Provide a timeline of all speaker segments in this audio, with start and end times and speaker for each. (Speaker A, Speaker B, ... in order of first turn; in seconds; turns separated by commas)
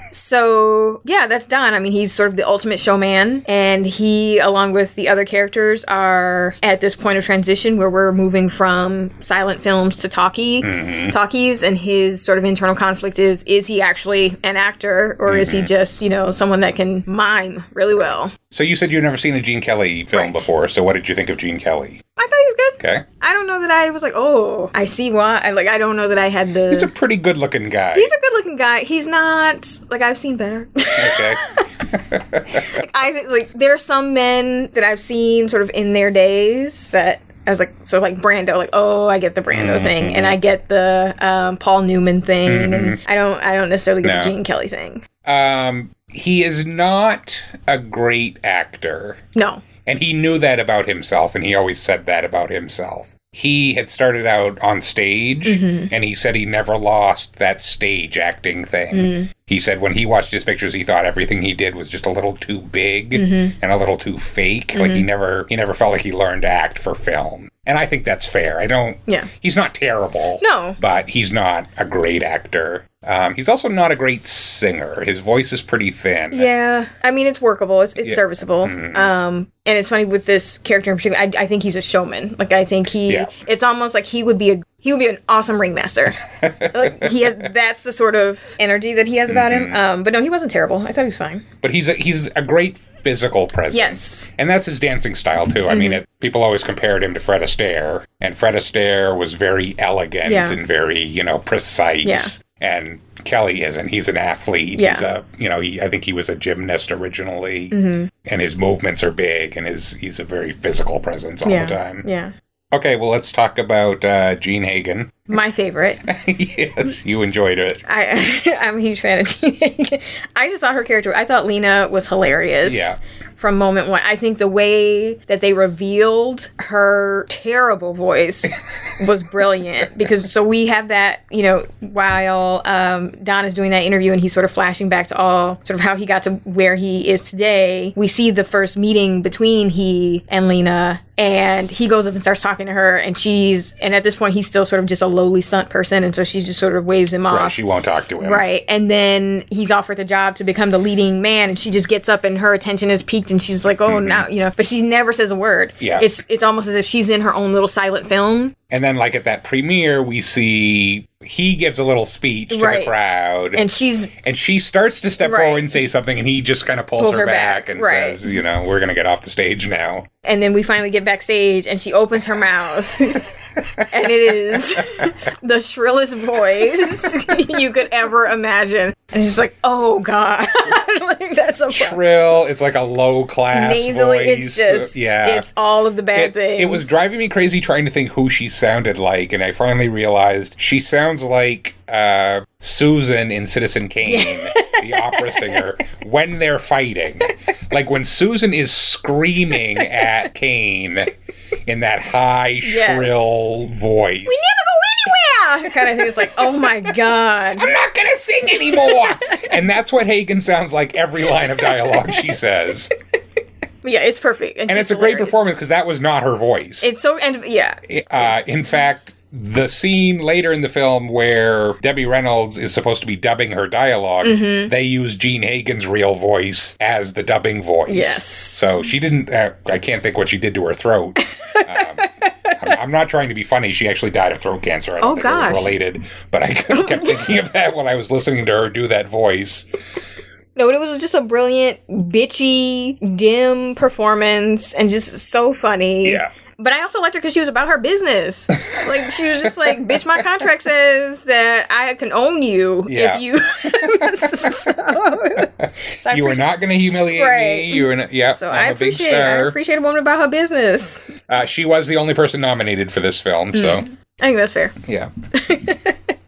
Speaker A: 0.1-18.3, Speaker B: 10.6-11.2, Speaker B: 15.3-15.7, Speaker B: 18.5-22.0, Speaker A: 20.1-20.4, Speaker A: 22.2-26.9, Speaker B: 22.8-23.1, Speaker B: 26.7-28.1, Speaker A: 27.9-31.6, Speaker B: 31.0-32.8, Speaker A: 32.5-45.0, Speaker B: 39.5-40.4, Speaker B: 42.5-43.0, Speaker B: 44.0-44.3, Speaker B: 45.2-49.2, Speaker A: 49.4-49.6, Speaker B: 49.9-76.5, Speaker A: 55.5-55.9, Speaker A: 58.9-59.3, Speaker A: 63.1-63.5, Speaker A: 64.7-65.1, Speaker A: 70.4-70.8, Speaker A: 76.3-91.5, Speaker B: 78.0-79.1, Speaker B: 86.4-87.3, Speaker B: 89.3-89.8, Speaker B: 91.6-112.1, Speaker A: 93.7-94.3, Speaker A: 95.7-96.0, Speaker A: 100.2-100.6, Speaker A: 102.0-102.3, Speaker A: 104.8-105.1, Speaker A: 107.7-108.1, Speaker A: 111.5-112.3, Speaker B: 112.7-115.3, Speaker A: 115.3-116.0, Speaker B: 116.0-117.8, Speaker A: 117.9-147.6, Speaker B: 122.6-123.0, Speaker B: 147.3-148.4, Speaker A: 148.2-158.5, Speaker B: 153.9-154.3, Speaker B: 155.8-156.1, Speaker B: 158.7-163.7, Speaker A: 162.5-162.9, Speaker A: 163.5-164.1, Speaker B: 164.2-170.1, Speaker A: 165.2-165.7, Speaker A: 167.0-168.2, Speaker A: 170.2-173.3, Speaker A: 173.9-182.0, Speaker B: 181.7-185.5, Speaker A: 183.5-187.0, Speaker B: 186.1-201.1, Speaker A: 194.0-195.7, Speaker B: 201.7-204.4, Speaker A: 202.6-203.5, Speaker A: 204.3-207.7, Speaker B: 207.6-212.9, Speaker A: 208.7-209.5, Speaker A: 211.9-212.2, Speaker A: 213.8-215.4, Speaker B: 214.7-216.9, Speaker A: 216.8-218.4, Speaker B: 217.9-239.7, Speaker A: 224.2-224.7, Speaker A: 227.9-228.7, Speaker A: 231.5-232.6, Speaker A: 235.0-235.7, Speaker A: 236.7-237.3, Speaker A: 240.6-256.5, Speaker B: 246.0-246.3, Speaker B: 249.4-250.0, Speaker B: 252.9-254.7, Speaker B: 255.4-259.6, Speaker A: 257.1-261.1, Speaker B: 261.3-263.9, Speaker A: 263.5-264.8, Speaker B: 264.8-265.1, Speaker A: 265.4-266.0